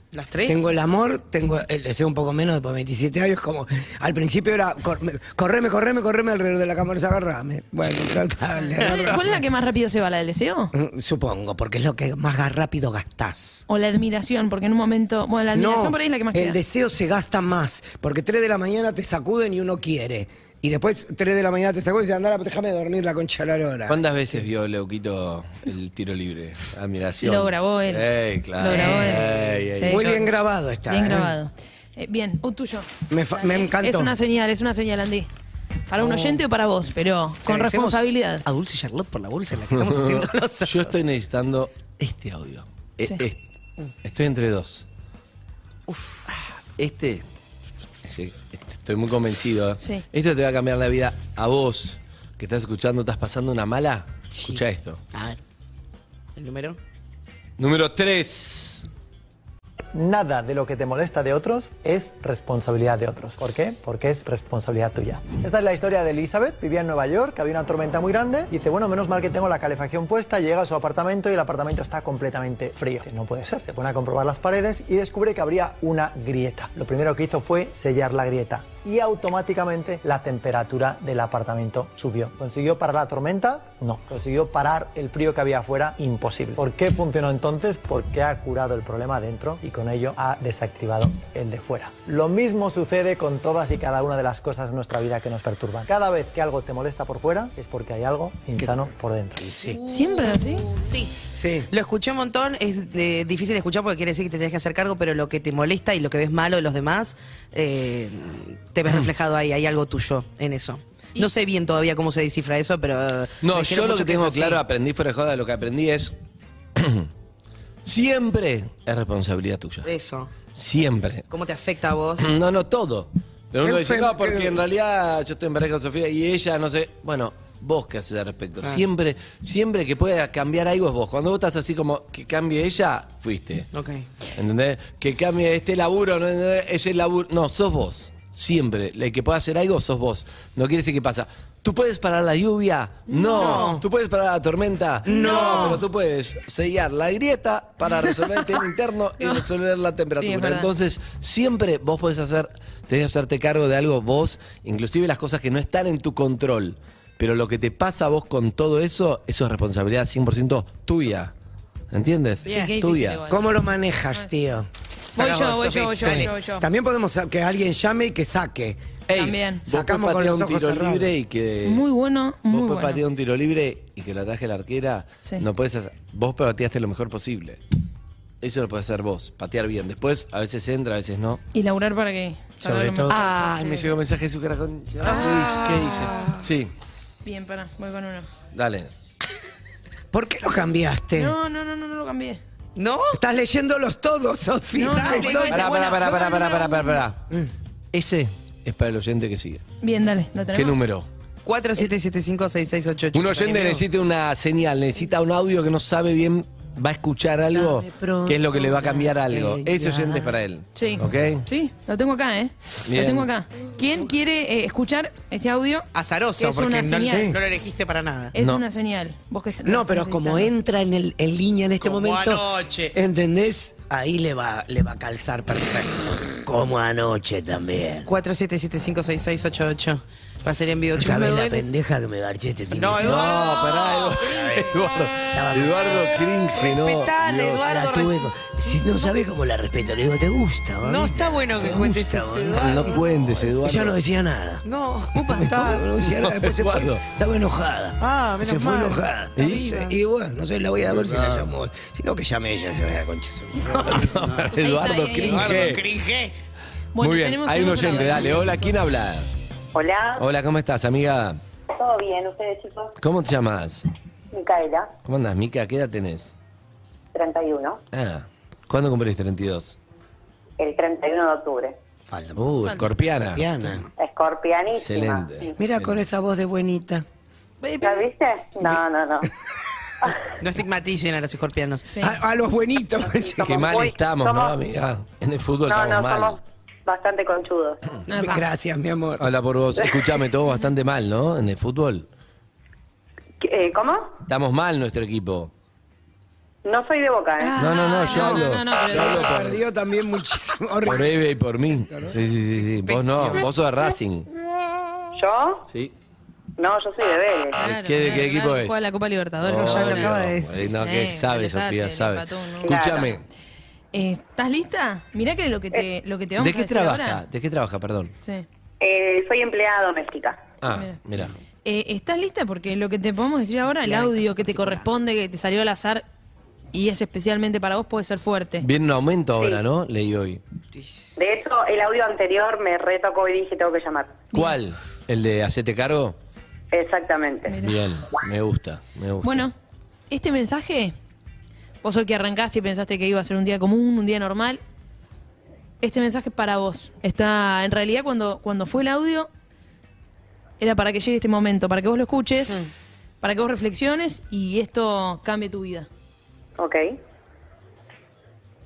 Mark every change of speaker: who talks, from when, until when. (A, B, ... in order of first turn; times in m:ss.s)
0:00.1-0:00.7 A
0:00.4-0:09.3 B
0:08.7-0:10.7 C
0:10.7-0:13.6 B
0:13.7-0:16.6 C
0:15.5-0:24.0 B
0:23.9-0:30.0 D
0:27.2-0:30.3 C
0:28.8-0:29.4 A
0:29.9-0:31.3 B
0:30.0-0:30.4 A
0:30.9-0:35.3 C
0:33.1-0:34.1 B
0:35.9-0:38.4 C
0:36.0-0:36.4 A
0:37.4-0:40.9 A
0:39.7-0:43.4 D
0:44.0-0:44.8 D
0:45.9-0:46.2 A
0:46.8-0:47.2 D
0:48.0-0:55.0 D
0:56.4-0:56.8 A
0:57.6-0:58.8 D
0:59.9-1:39.5 E
1:38.6-1:38.8 B
1:39.4-1:39.8 B
1:39.5-1:54.6 A
1:39.9-1:40.6 C
1:41.3-1:41.7 B
1:53.4-1:56.1 D
1:56.8-1:57.1 D
1:57.8-1:59.9 D
1:59.8-2:00.3 A
2:00.5-2:01.3 D
2:01.3-2:02.3 A
2:02.2-2:13.7 D
2:03.6-2:04.6 B
2:13.7-2:14.1 A
2:14.3-2:41.3 D
2:23.1-2:23.7 C
2:23.3-2:23.8 A
2:25.0-2:25.8 A
2:25.2-2:25.6 C
2:29.2-2:29.4 C
2:30.1-2:30.7 C
2:41.9-2:43.3 D
2:42.4-2:42.7 A
2:42.4-2:43.6 C
2:43.3-2:44.7 B
2:45.2-2:46.3 A
2:45.2-2:46.6 C
2:45.9-2:48.8 B
2:49.1-2:51.9 D
2:49.1-2:49.6 C
2:49.7-2:51.1 B
2:51.6-2:53.0 C
2:52.5-2:57.6 D
2:58.4-3:01.4 D
3:01.5-3:03.9 C
3:02.6-3:03.2 B
3:03.1-3:06.7 D
3:05.0-3:06.3 A
3:05.0-3:05.4 C
3:07.2-3:08.3 C
3:08.5-3:08.9 D
3:10.1-3:11.3 B
3:11.1-3:12.4 C
3:12.8-3:13.2 A
3:13.1-3:15.7 B
3:14.7-3:17.0 C
3:14.9-3:15.5 A
3:15.5-3:17.3 D
3:17.9-3:19.6 D
3:19.8-3:20.8 C
3:20.5-3:21.1 D
3:21.4-3:23.8 A
3:23.1-3:31.4 D
3:27.5-3:30.4 A
3:30.7-3:37.3 C
3:32.8-3:33.3 D
3:35.9-3:38.3 A
3:37.0-3:37.4 B
3:38.3-3:40.5 C
3:38.4-3:38.6 D
3:39.6-3:48.1 B
3:41.8-3:42.9 A
3:48.0-3:51.7 A
3:50.9-3:53.4 B
3:52.7-3:54.6 A
3:53.0-3:57.7 D
3:55.3-3:56.1 B
3:56.5-3:58.9 A
3:57.6-4:02.9 B
4:00.8-4:03.4 A
4:02.5-4:04.0 D
4:03.5-4:04.6 B
4:04.6-4:06.0 A
4:05.2-4:05.5 C
4:05.3-4:14.1 B
4:06.2-4:07.0 D
4:08.0-4:10.0 A
4:09.4-4:09.8 D
4:13.8-4:15.8 D
4:13.9-4:14.2 A
4:14.5-4:15.7 C
4:15.3-4:16.0 A
4:15.5-4:16.3 B
4:16.9-4:18.6 C
4:17.0-4:19.3 D
4:19.7-4:20.2 F
4:20.2-4:21.4 D
4:21.7-4:22.9 F
4:23.0-4:23.8 D
4:24.3-4:24.9 F
4:25.0-4:26.3 D
4:27.1-4:27.8 F
4:27.9-4:29.8 D
4:30.6-4:31.8 F
4:32.1-4:32.4 B
4:32.4-4:33.8 D
4:33.3-4:33.8 B
4:34.0-4:35.5 F
4:34.7-4:36.0 D
4:35.6-4:37.0 B
4:37.6-4:38.1 A
4:37.8-4:39.3 F
4:40.4-4:41.9 A
4:42.0-4:43.6 B
4:43.1-4:44.6 F
4:43.4-4:46.4 D
4:45.6-4:47.8 F
4:48.1-4:48.4 C
4:48.1-4:49.2 B
4:49.2-4:52.1 D
4:53.4-4:54.2 F
4:54.3-4:55.5 D
4:56.6-4:57.5 F
4:57.4-4:59.4 C
4:57.6-4:59.6 D
4:58.1-5:01.2 B
5:00.8-5:04.3 D
5:02.5-5:03.4 A
5:05.2-5:05.7 F
5:06.6-5:07.6 F
5:07.6-5:08.8 D
5:07.6-5:10.1 C
5:09.4-5:13.2 D
5:09.5-5:10.7 A
5:10.8-5:12.8 C
5:12.6-5:13.1 F
5:13.9-5:17.2 C
5:16.4-5:18.1 D
5:18.8-5:20.5 F
5:20.6-5:21.3 D
5:20.7-5:21.0 C
5:21.6-5:26.0 C
5:23.8-5:24.9 A
5:26.7-5:28.6 C
5:28.6-5:30.4 D
5:30.7-5:31.1 A
5:31.2-5:34.2 F
5:34.3-5:36.2 D
5:36.7-5:37.5 F
5:37.5-5:37.8 C
5:37.6-5:39.5 D
5:39.2-5:39.5 C
5:40.1-5:40.9 C
5:41.8-5:44.6 C
5:45.8-5:49.3 C
5:50.6-5:52.6 C
5:53.2-5:55.9 C
5:56.6-5:57.0 F